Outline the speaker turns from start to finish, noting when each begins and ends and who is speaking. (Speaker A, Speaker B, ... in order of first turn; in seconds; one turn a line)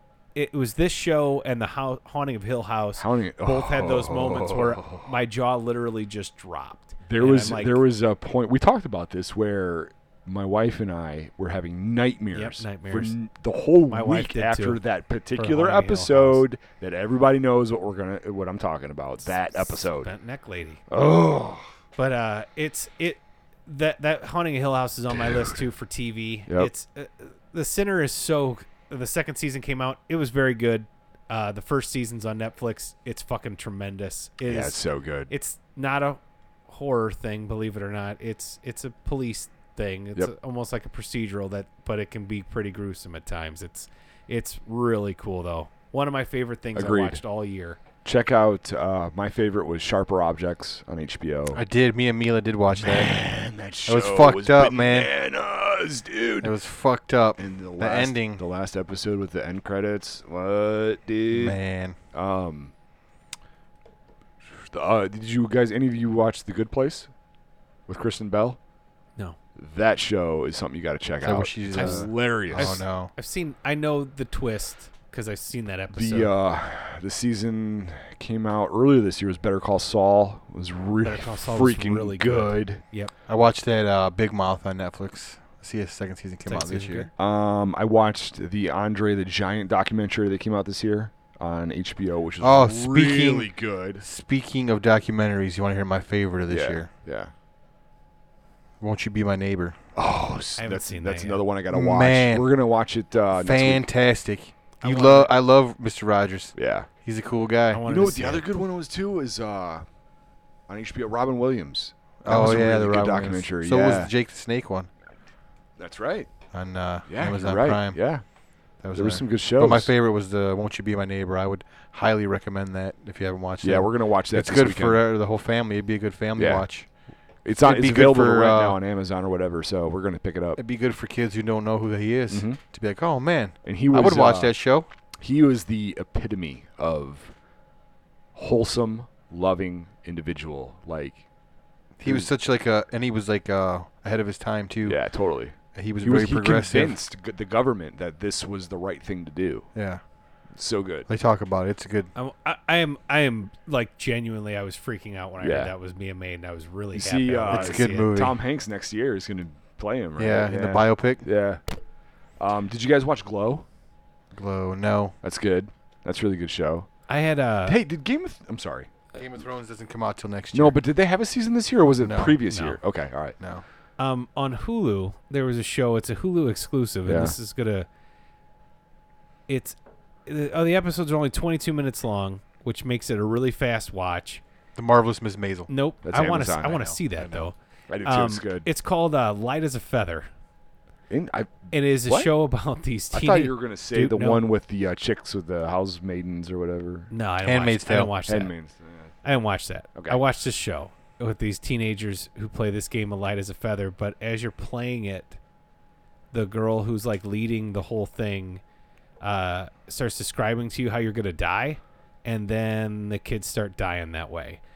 Speaker A: 0.3-7.9
Speaker B: 3.0-5.1
Speaker B: 7.1-20.1
Speaker A: 12.3-13.2
Speaker A: 13.9-14.8
Speaker A: 15.4-16.4
Speaker A: 19.6-20.8
Speaker B: 20.9-21.7
Speaker A: 22.0-47.8
Speaker B: 34.4-35.3
Speaker B: 46.8-47.2
Speaker B: 48.0-51.6
Speaker C: 51.5-53.2
Speaker B: 52.8-56.5
Speaker C: 53.9-55.1
Speaker C: 56.4-58.4
Speaker B: 57.4-61.6
Speaker C: 61.3-62.0
Speaker B: 62.1-62.7
Speaker B: 64.7-67.1
Speaker B: 67.9-68.6
Speaker B: 69.6-72.8
Speaker C: 71.2-73.1
Speaker A: 71.7-76.3
Speaker B: 75.9-82.8
Speaker A: 81.0-83.1
Speaker C: 83.3-87.1
Speaker A: 86.5-87.1
Speaker B: 87.2-94.0
Speaker C: 92.4-96.9
Speaker B: 96.5-97.3
Speaker C: 98.8-99.8
Speaker B: 100.0-103.9
Speaker A: 100.6-101.4
Speaker C: 101.7-102.5
Speaker C: 103.4-107.8
Speaker A: 104.8-105.3
Speaker B: 106.6-106.9
Speaker A: 107.7-108.5
Speaker B: 107.9-109.8
Speaker B: 110.7-114.1
Speaker C: 112.2-114.9
Speaker B: 115.8-116.3
Speaker C: 116.5-118.0
Speaker B: 117.1-118.2
Speaker C: 118.8-126.9
Speaker B: 118.9-119.9
Speaker B: 123.6-125.0
Speaker B: 126.4-126.7
Speaker B: 127.5-130.6
Speaker C: 127.6-128.8
Speaker C: 130.6-134.9
Speaker B: 132.3-132.6
Speaker B: 133.6-134.6
Speaker B: 135.2-137.3
Speaker B: 138.3-141.2
Speaker C: 142.0-145.0
Speaker B: 142.0-142.3
Speaker B: 144.8-149.7
Speaker C: 145.8-147.0
Speaker C: 149.8-150.0
Speaker B: 150.6-151.1
Speaker C: 151.1-152.1
Speaker A: 152.2-158.2
Speaker B: 155.4-155.7
Speaker B: 156.9-161.6
Speaker C: 157.5-158.4
Speaker C: 160.2-161.2
Speaker B: 162.4-163.7
Speaker C: 164.3-165.2
Speaker B: 165.2-166.9
Speaker A: 167.1-167.8
Speaker B: 167.7-168.9
Speaker C: 169.1-170.8
Speaker B: 170.5-173.4
Speaker C: 172.0-172.4
Speaker A: 172.5-172.8
Speaker A: 174.0-177.9
Speaker B: 177.1-177.3
Speaker A: 179.5-184.4
Speaker C: 184.8-185.7
Speaker A: 185.7-190.3
Speaker B: 186.0-186.9
Speaker C: 186.9-187.5
Speaker B: 187.9-188.7
Speaker B: 191.1-192.3
Speaker A: 191.7-194.5
Speaker B: 193.1-197.1
Speaker A: 197.1-198.5
Speaker C: 197.4-198.2
Speaker B: 198.3-199.1
Speaker A: 199.2-205.4
Speaker B: 199.9-200.2
Speaker A: 206.3-208.6
Speaker A: 209.2-214.6